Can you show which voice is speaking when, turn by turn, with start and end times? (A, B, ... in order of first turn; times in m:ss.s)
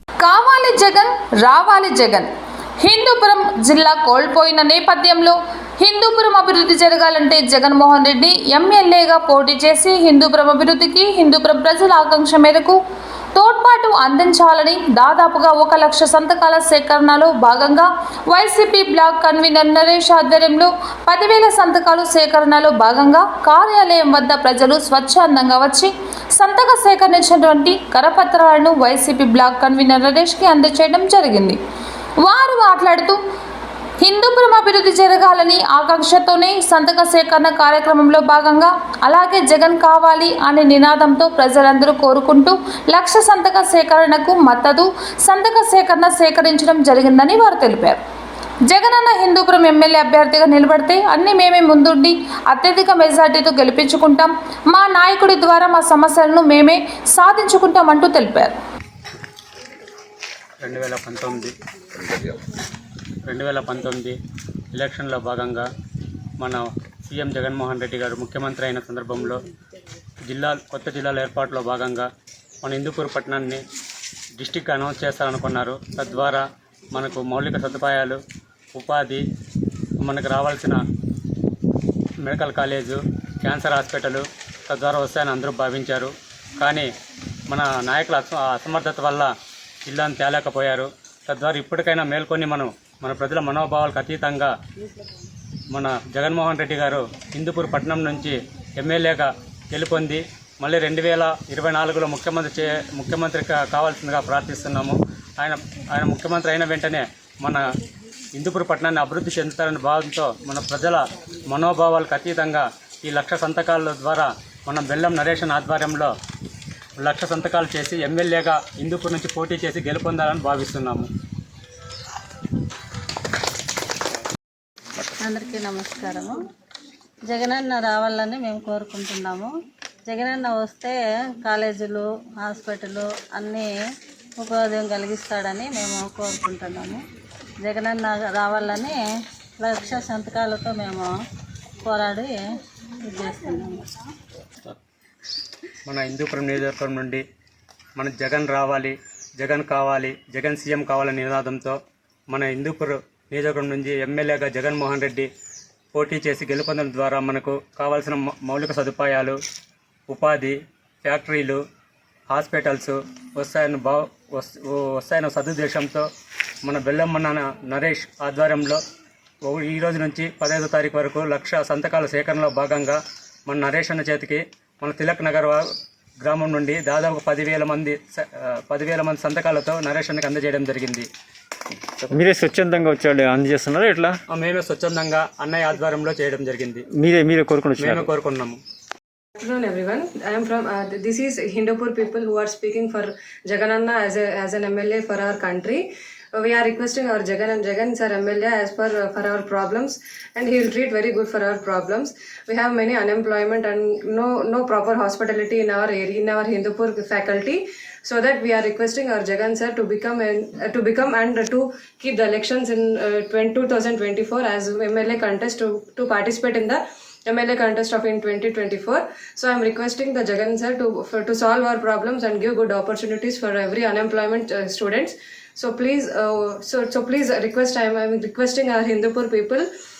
0:00.2-0:02.3 A
0:02.8-0:12.8 A
0:13.3-0:31.6 A
0:32.2-0:33.2 A
0:34.0-0:48.0 A
0:48.6-0:58.5 A
1:00.6-1:01.5 B
1:03.2-1:04.1 B
1:04.7-1:05.6 B
1:06.4-1:09.4 B
1:10.3-1:12.1 B
1:12.6-1:13.6 B
1:14.4-1:18.2 B
1:18.7-1:19.2 B
1:20.0-1:20.8 B
1:22.2-1:26.9 B
1:27.5-1:29.3 B
1:29.8-1:34.5 B
1:35.7-1:47.6 B
1:48.4-1:56.1 B
1:57.0-2:01.1 B
2:05.2-2:06.3 C
2:07.3-2:09.5 C
2:10.1-2:13.7 C
2:14.4-2:17.0 C
2:17.6-2:19.0 C
2:19.6-2:21.1 C
2:21.8-2:22.4 C
2:23.0-2:23.9 C
2:25.8-2:27.2 B
2:28.0-2:31.8 B
2:32.3-2:35.3 B
2:35.9-2:39.4 B
2:40.1-2:41.6 B
2:42.3-2:46.1 B
2:46.6-2:48.8 B
2:49.4-2:55.6 B
2:56.2-3:01.1 B
3:02.1-3:04.2 D
3:04.3-3:06.8 B
3:06.9-3:08.1 D
3:07.8-3:08.6 B
3:09.4-3:49.7 E